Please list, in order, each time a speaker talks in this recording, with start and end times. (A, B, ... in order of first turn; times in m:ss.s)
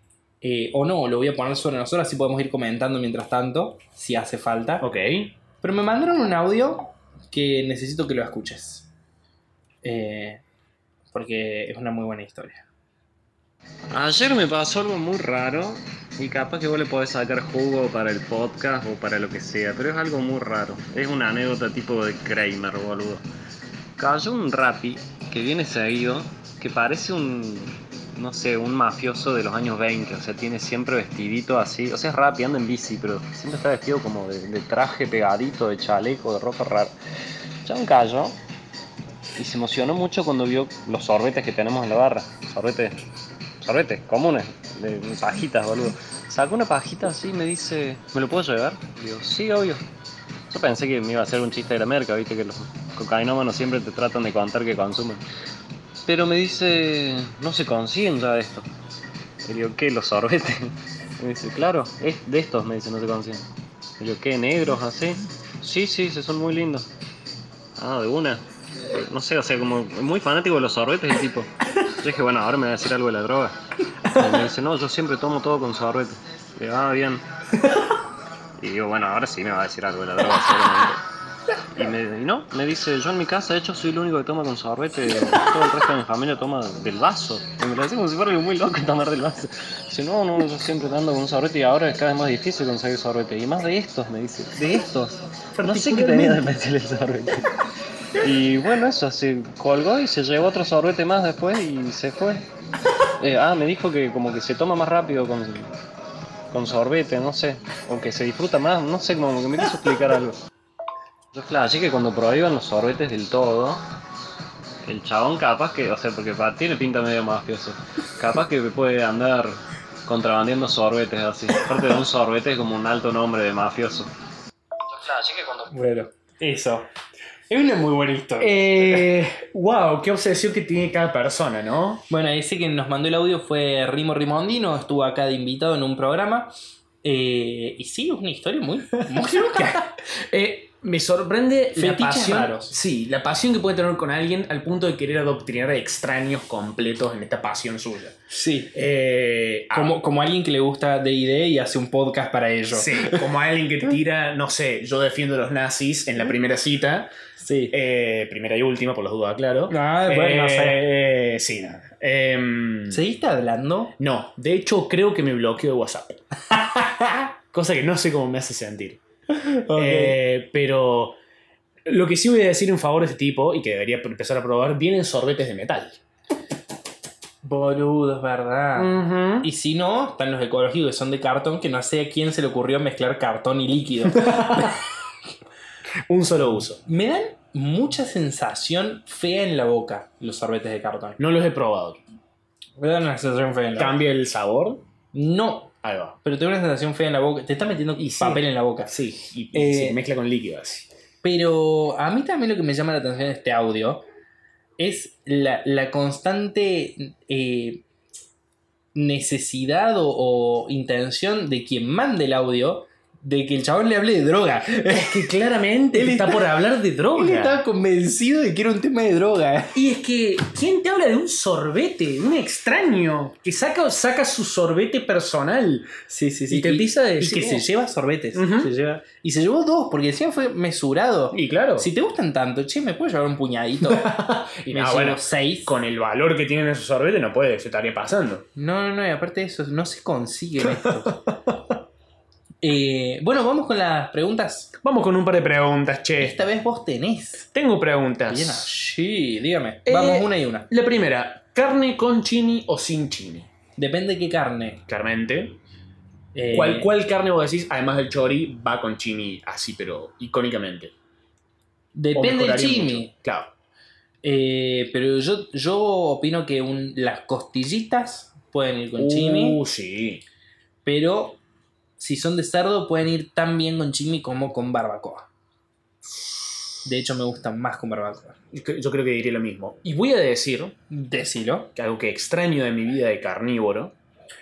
0:00.4-0:04.9 A
0:04.8-0:05.3 B
0:05.6-0:08.9 A
0:09.8-0:10.4 A
0:11.1-0:12.7 A
0:13.9-0:23.2 C
0:24.0-0:36.9 C
0:37.6-0:38.4 C
0:39.4-0:43.0 C
0:43.6-0:49.8 C
0:50.5-0:55.2 C
0:56.0-0:58.7 C
0:59.4-1:03.4 C
1:04.0-1:06.9 C
1:07.8-1:13.6 C
1:14.0-1:14.4 B
1:14.1-1:17.2 C
1:17.5-1:17.9 B
1:18.6-1:21.0 C
1:21.8-1:37.5 C
1:35.6-1:36.5 B
1:38.2-1:42.5 C
1:43.2-1:45.7 C
1:46.5-1:50.4 C
1:51.3-1:53.8 C
1:54.8-2:04.1 C
2:04.9-2:05.7 C
2:05.7-2:06.9 A
2:07.5-2:08.7 A
2:08.4-2:12.0 B
2:12.1-2:19.9 A
2:19.0-2:28.2 B
2:21.8-2:22.7 A
2:28.3-2:28.8 A
2:28.7-2:30.0 B
2:29.7-2:33.2 A
2:32.7-2:37.1 B
2:37.4-2:37.8 A
2:37.7-2:43.0 B
2:39.7-2:40.8 A
2:42.9-2:44.0 A
2:44.0-2:46.2 B
2:46.7-2:47.0 A
2:47.5-2:49.0 B
2:49.3-2:50.2 A
2:49.7-2:51.2 B
2:51.9-2:56.0 B
2:57.4-3:04.7 A
2:58.8-2:59.5 B
3:04.1-3:04.8 B
3:06.1-3:06.8 B
3:06.9-3:11.2 A
3:11.2-3:12.0 B
3:12.8-3:14.0 A
3:13.8-3:14.8 B
3:15.1-3:19.0 A
3:15.8-3:16.2 B
3:18.0-3:20.9 B
3:19.5-3:20.0 A
3:21.2-3:24.0 A
3:24.8-3:27.9 A
3:29.0-3:35.3 A
3:34.8-3:37.6 B
3:35.9-3:36.6 A
3:37.1-3:39.8 A
3:39.7-3:46.0 B
3:46.1-3:54.2 A
3:46.5-3:47.7 B
3:48.3-3:48.7 B
3:51.3-3:51.9 B
3:53.8-3:58.5 B
3:54.7-3:55.7 A
3:58.6-4:01.2 A
4:00.6-4:01.8 B
4:02.6-4:04.7 A
4:04.8-4:06.4 B
4:06.2-4:07.5 A
4:07.5-4:08.7 B
4:08.3-4:10.7 A
4:09.9-4:13.5 B
4:13.8-4:14.8 A
4:14.9-4:15.6 B
4:16.3-4:16.9 A
4:16.5-4:20.9 B
4:22.0-4:23.1 A
4:22.1-4:23.5 B
4:24.2-4:29.6 A
4:29.0-4:30.2 B
4:30.8-4:31.4 A
4:32.0-4:35.3 A
4:36.8-4:38.4 A
4:38.5-4:40.8 B
4:40.9-4:41.7 A
4:41.8-4:44.0 B